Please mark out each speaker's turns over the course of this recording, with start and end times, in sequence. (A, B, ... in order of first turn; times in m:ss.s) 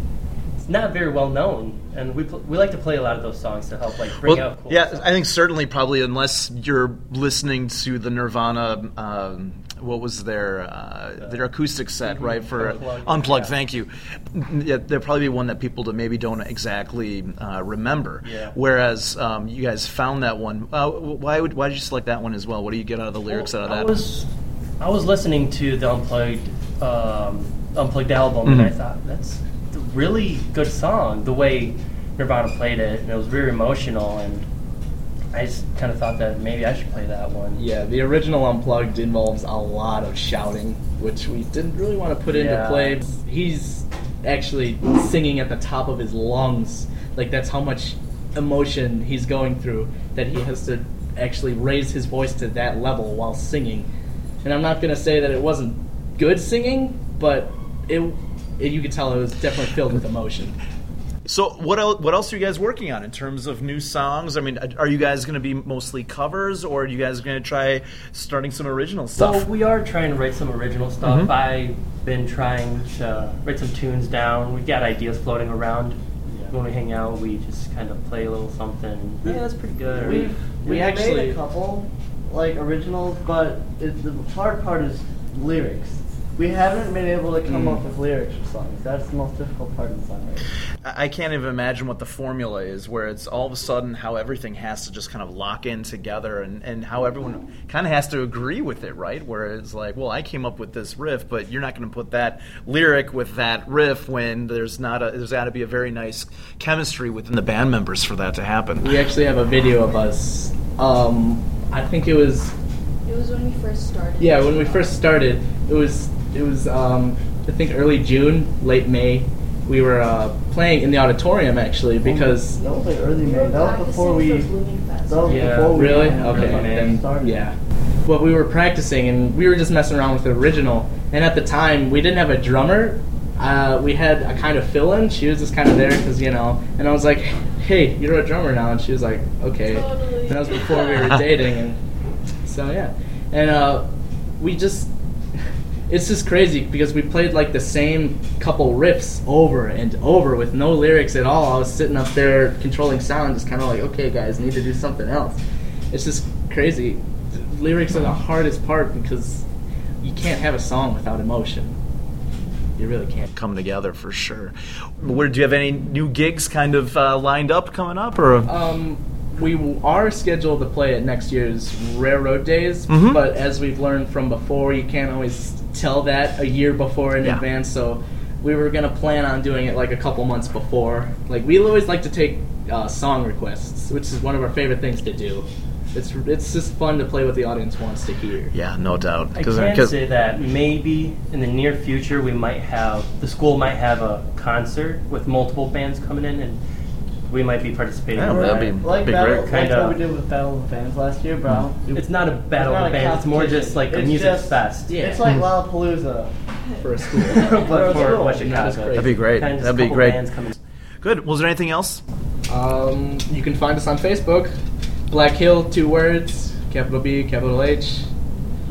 0:00.6-0:05.1 A
0:04.2-0:24.0 B
0:11.2-0:13.6 A
0:18.2-0:18.6 A
0:23.3-0:24.3 A
0:24.8-0:34.5 A
0:28.5-0:28.7 B
0:35.3-0:37.6 A
0:37.6-0:53.9 C
0:42.3-0:43.0 A
0:54.4-1:00.6 C
1:01.3-1:09.5 B
1:09.2-1:20.4 A
1:11.0-1:11.3 B
1:19.9-1:30.5 D
1:19.9-1:21.4 C
1:27.5-1:27.8 C
1:30.8-1:48.9 B
1:48.8-1:52.6 C
1:53.1-1:54.6 E
1:54.2-2:02.6 C
2:02.0-2:04.5 D
2:03.2-2:05.6 E
2:05.1-2:07.5 D
2:05.2-2:07.0 A
2:05.7-2:21.8 C
2:19.9-2:20.2 E
2:22.4-2:24.9 C
2:25.9-2:39.5 C
2:40.0-2:41.8 C
2:42.8-2:43.3 C
2:43.4-2:48.5 B
2:48.5-3:08.5 C
2:52.9-2:53.2 B
3:08.5-3:10.0 B
3:09.3-3:16.6 A
3:17.3-3:20.0 A
3:18.1-3:19.5 B
3:18.3-3:26.3 D
3:21.9-3:25.0 A
3:24.9-3:25.2 C
3:26.8-3:29.2 C
3:27.2-3:30.6 A
3:27.5-3:28.6 D
3:29.0-3:30.2 B
3:31.0-3:32.0 B
3:32.5-3:34.5 C
3:35.1-3:38.1 C